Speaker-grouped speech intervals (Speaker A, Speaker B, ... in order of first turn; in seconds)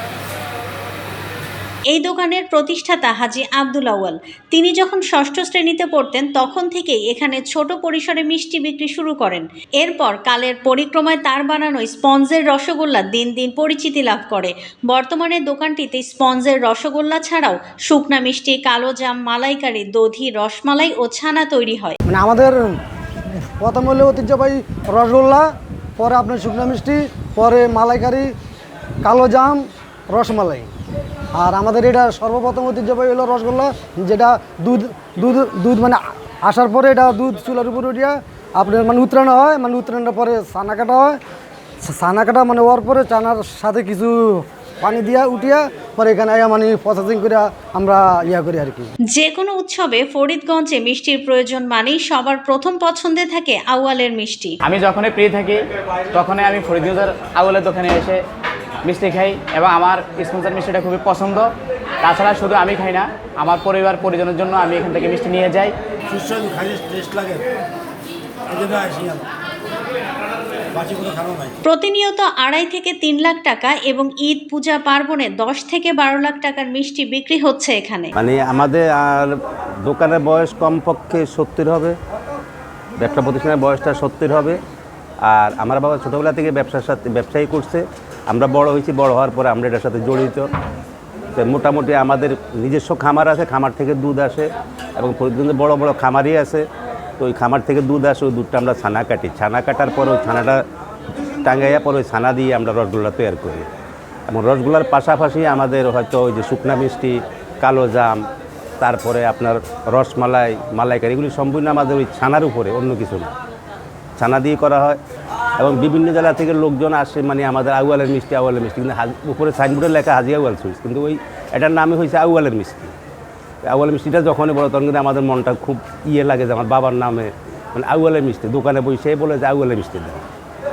Speaker A: 1.9-22.0, 49.1-54.6, 71.6-78.1
Speaker B: 22.1-22.8, 23.6-28.3, 29.0-30.7, 31.4-41.2, 41.8-48.9
Speaker C: 54.6-58.2, 58.8-61.5, 62.0-65.7
Speaker D: 66.1-67.4, 68.5-69.2, 70.8-71.5
Speaker E: 78.2-82.0, 83.0-84.6, 85.2-90.5, 91.4-96.7, 97.2-100.6, 101.4-103.7, 104.3-108.2, 108.8-113.3, 114.2-115.0, 115.6-122.9, 123.6-130.2